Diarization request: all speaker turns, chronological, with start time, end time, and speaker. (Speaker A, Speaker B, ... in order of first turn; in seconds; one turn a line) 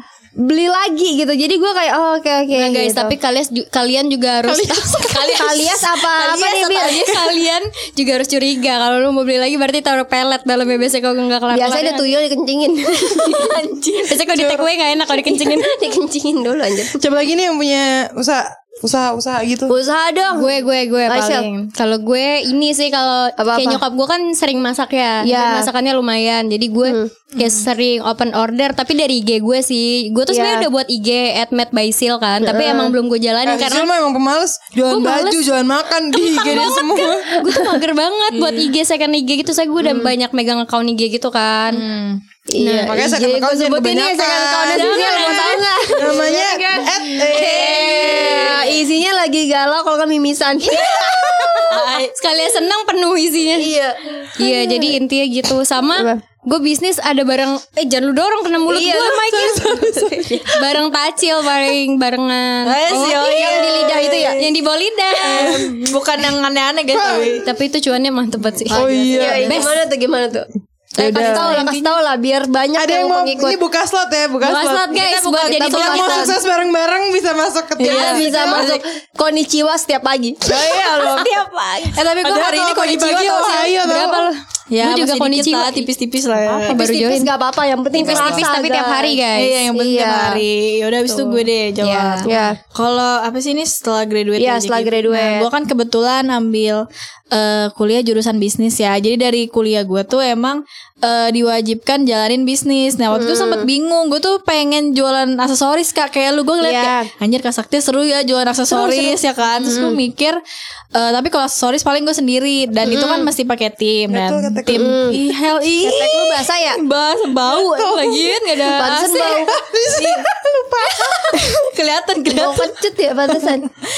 Speaker A: 0.4-3.2
Speaker B: 2.5-12.1
Speaker A: 4.5-7.2
Speaker A: 11.5-13.6
Speaker B: 13.2-13.5
Speaker C: 13.2-14.3
Speaker B: 14.1-15.8
Speaker A: 15.2-17.0
Speaker D: 17.0-19.8
Speaker A: 19.7-20.5
Speaker B: 20.3-33.9
Speaker A: 21.1-21.5
Speaker A: 23.4-23.8
Speaker A: 25.2-25.7
Speaker A: 26.9-27.1
Speaker A: 30.3-30.7
Speaker A: 32.4-32.9
Speaker D: 33.5-37.3
Speaker B: 34.9-35.4
Speaker B: 36.1-41.9
Speaker A: 37.4-37.8
Speaker C: 38.4-38.7
Speaker A: 39.8-40.1
Speaker C: 41.7-42.2
Speaker A: 42.5-51.8
Speaker B: 42.6-43.0
Speaker D: 42.8-48.7
Speaker B: 44.7-46.3
Speaker B: 48.1-48.6
Speaker B: 50.7-53.8
Speaker C: 51.7-52.1
Speaker A: 53.5-55.0
Speaker B: 54.4-59.7
Speaker A: 56.0-56.2
Speaker A: 58.7-60.5
Speaker D: 58.9-60.5
Speaker B: 60.5-62.8
Speaker C: 62.6-64.5
Speaker D: 62.9-63.5
Speaker A: 62.9-64.4
Speaker B: 64.4-65.6
Speaker C: 65.2-67.5
Speaker D: 65.3-65.8
Speaker D: 66.9-67.5
Speaker B: 67.4-69.8
Speaker D: 68.7-69.6
Speaker C: 68.8-69.6
Speaker A: 69.1-73.6
Speaker D: 71.0-71.6
Speaker C: 71.0-71.9
Speaker D: 72.8-78.7
Speaker B: 74.4-76.4
Speaker A: 74.9-76.3
Speaker C: 77.8-78.8
Speaker A: 77.8-80.8
Speaker C: 80.6-81.3
Speaker B: 80.7-85.9
Speaker C: 82.0-82.4
Speaker D: 82.2-84.3
Speaker C: 84.7-86.8
Speaker A: 86.7-90.4
Speaker B: 86.7-87.3
Speaker B: 87.9-89.6
Speaker D: 88.0-88.5
Speaker C: 89.3-110.4
Speaker B: 91.8-92.4
Speaker A: 92.2-92.6
Speaker A: 94.4-95.5
Speaker A: 103.1-103.7
Speaker A: 106.6-107.1
Speaker A: 108.7-110.0
Speaker C: 111.0-117.9
Speaker A: 112.9-113.3
Speaker D: 114.1-115.0
Speaker A: 114.7-115.2
Speaker A: 115.8-116.8
Speaker B: 117.5-119.4
Speaker D: 117.5-118.3
Speaker A: 118.7-119.6
Speaker D: 119.2-121.5
Speaker C: 121.4-122.6
Speaker B: 121.7-122.6
Speaker A: 122.3-123.7